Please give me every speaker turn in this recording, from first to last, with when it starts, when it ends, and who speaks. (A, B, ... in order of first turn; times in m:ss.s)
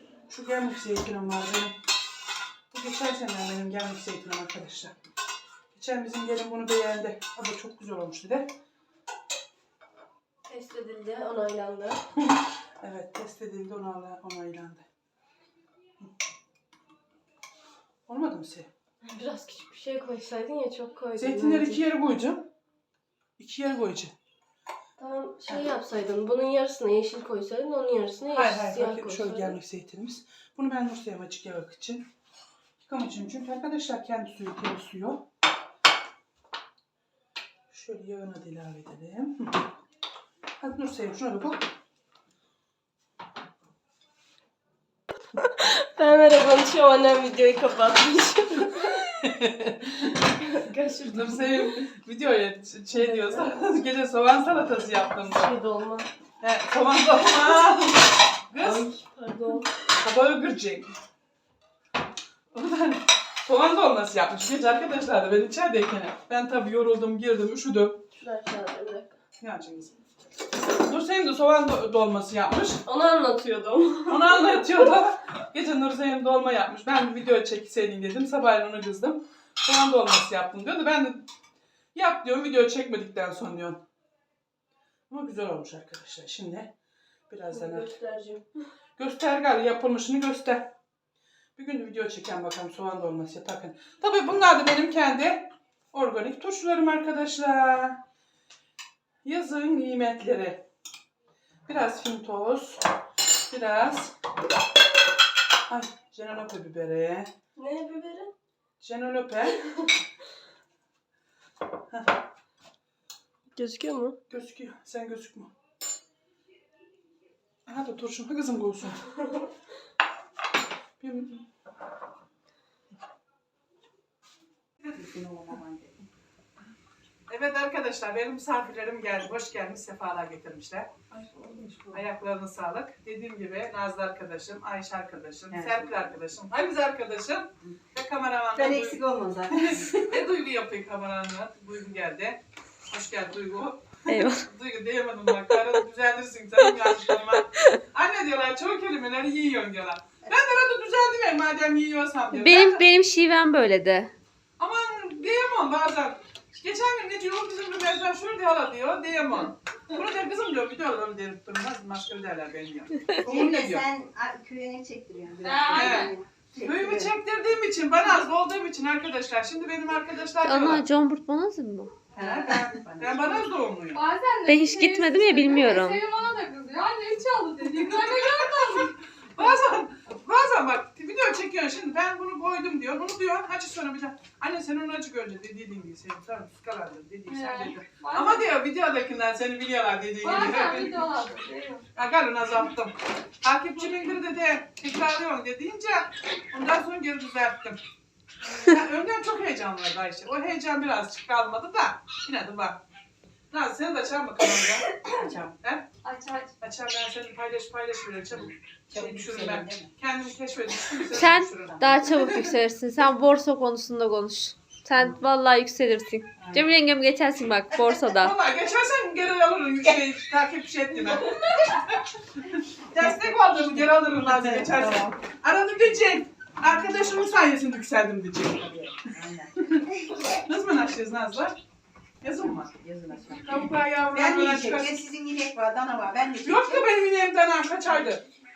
0:00.3-0:01.8 A
0:02.7-0:05.0 A
0:05.7-0:08.5 A
0:10.5-0:12.0 B
0:12.8-0:14.8 A
0:18.1-0:18.7 A
0:19.0-0:21.8 B
0:21.2-0:22.5 A
0:23.4-0:24.2 A
0:25.0-0:29.6 B
0:28.3-0:32.1 A
0:32.8-0:35.2 A
0:37.7-0:39.6 A
0:40.6-0:41.7 A
0:45.4-0:49.3 B
0:49.2-0:50.1 A
0:50.4-0:51.8 B
0:51.1-0:55.5 A
0:52.9-0:53.8 B
0:55.2-0:56.1 B
0:56.4-0:58.9 A
0:58.6-0:59.7 B
0:59.9-1:00.9 A
1:02.5-1:08.0 A
1:08.2-1:09.2 B
1:09.4-1:10.0 A
1:10.8-1:12.8 A
1:12.9-1:14.9 B
1:14.1-1:21.3 A
1:21.9-1:23.8 A
1:25.1-1:26.7 A
1:27.3-1:27.9 A
1:27.5-1:28.4 B
1:29.0-1:30.7 A
1:31.6-1:38.0 A
1:39.2-1:40.7 A
1:41.7-1:42.9 A
1:43.5-1:44.1 A
1:45.7-1:47.3 A
1:47.6-1:48.3 B
1:48.8-1:49.7 A
1:53.6-1:54.2 B
1:54.3-1:55.5 A
1:57.7-1:59.0 A
2:01.0-2:01.4 A
2:04.9-2:06.0 C
2:07.3-2:11.0 A
2:11.1-2:12.0 C
2:11.9-2:32.8 A
2:15.5-2:16.1 C
2:18.6-2:20.2 C
2:24.1-2:24.4 D
2:32.3-2:34.1 D
2:34.6-2:43.9 A
2:43.2-2:47.1 C
2:45.4-2:46.1 E
2:45.7-2:50.8 A
2:50.4-2:51.9 D
2:52.1-2:53.4 C
2:52.2-2:54.0 A
2:53.9-2:59.4 E
2:54.5-2:56.0 D
2:57.6-3:11.1 A
3:07.3-3:08.5 E
3:10.2-3:11.8 E
3:12.0-3:17.8 A
3:18.6-3:22.8 A
3:23.5-3:24.9 A
3:25.0-3:25.5 C
3:25.6-3:25.9 A
3:26.0-3:26.5 E
3:26.6-3:32.5 A
3:28.3-3:29.9 C
3:31.1-3:38.3 D
3:31.7-3:32.2 C
3:35.0-3:35.2 C
3:36.4-3:36.8 C
3:38.2-3:49.0 A
3:43.0-3:45.2 C
3:49.0-3:50.2 C
3:49.6-3:51.6 A
3:52.2-3:52.7 A
3:52.4-3:56.9 C
3:53.3-3:55.0 A
3:56.4-3:58.2 A
3:57.9-3:58.2 C